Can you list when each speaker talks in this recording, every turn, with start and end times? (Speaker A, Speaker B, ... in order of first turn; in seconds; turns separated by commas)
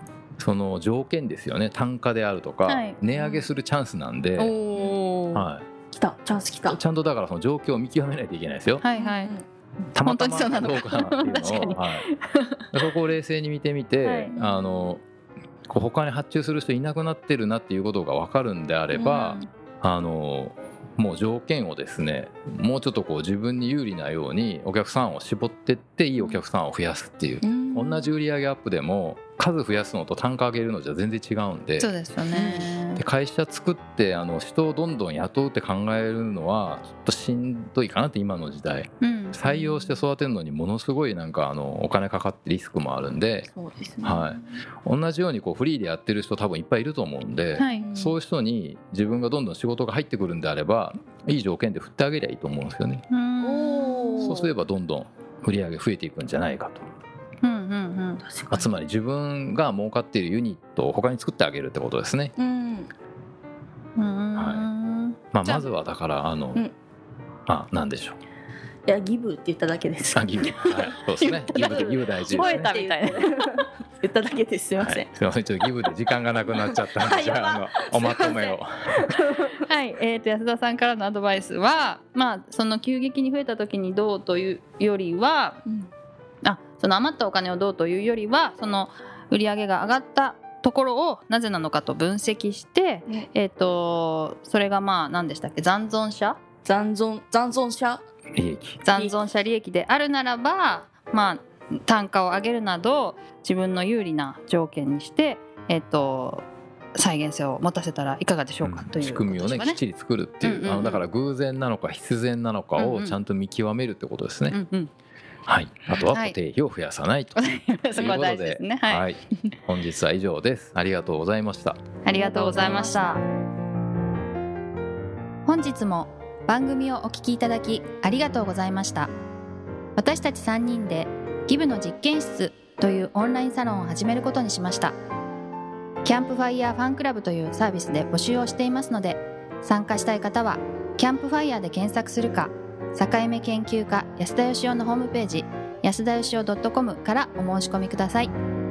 Speaker A: 0.4-4.5, Speaker B: 2.7-3.0, Speaker C: 3.1-3.5, Speaker B: 4.4-5.5, Speaker A: 5.3-5.7, Speaker C: 5.9-6.8, Speaker A: 6.7-8.8, Speaker B: 8.8-9.3, Speaker C: 8.9-9.4, Speaker A: 9.9-12.1, Speaker B: 10.0-12.6, Speaker A: 12.7-15.0, Speaker B: 14.0-14.6, Speaker A: 15.7-31.9, Speaker C: 18.9-19.4, Speaker C: 27.4-28.1, Speaker B: 31.8-33.0, Speaker C: 32.3-32.7, Speaker A: 33.0-43.5, Speaker B: 39.0-40.0, Speaker C: 43.5-44.4, Speaker A: 44.0-53.0, Speaker B: 47.6-47.9, Speaker C: 47.7-48.2, Speaker B: 53.1-54.4, Speaker C: 53.4-54.5, Speaker A: 54.2-56.8, Speaker B: 57.4-58.2, Speaker C: 58.2-58.7, Speaker A: 58.5-62.3, Speaker C: 62.4-62.9, Speaker B: 64.0-65.7, Speaker A: 64.3-64.7, Speaker A: 65.3-66.6, Speaker A: 67.5-68.2, Speaker C: 68.9-71.0, Speaker A: 70.1-72.7, Speaker B: 71.2-73.6, Speaker C: 71.5-75.1, Speaker A: 74.8-78.9, Speaker C: 76.5-79.5, Speaker B: 79.5-85.6, Speaker B: 86.4-96.4, Speaker C: 96.6-98.0, Speaker A: 98.3-98.8, Speaker B: 98.8-109.8, Speaker C: 98.9-99.2, Speaker A: 108.6-114.6, Speaker B: 110.4-111.0, Speaker B: 112.8-113.2, Speaker B: 114.5-114.9, Speaker A: 115.5-121.8, Speaker B: 115.9-116.3, Speaker B: 117.3-119.0, Speaker B: 122.0-123.2, Speaker C: 122.1-123.2, Speaker B: 125.4-129.1, Speaker B: 129.9-134.9, Speaker B: 136.0-148.3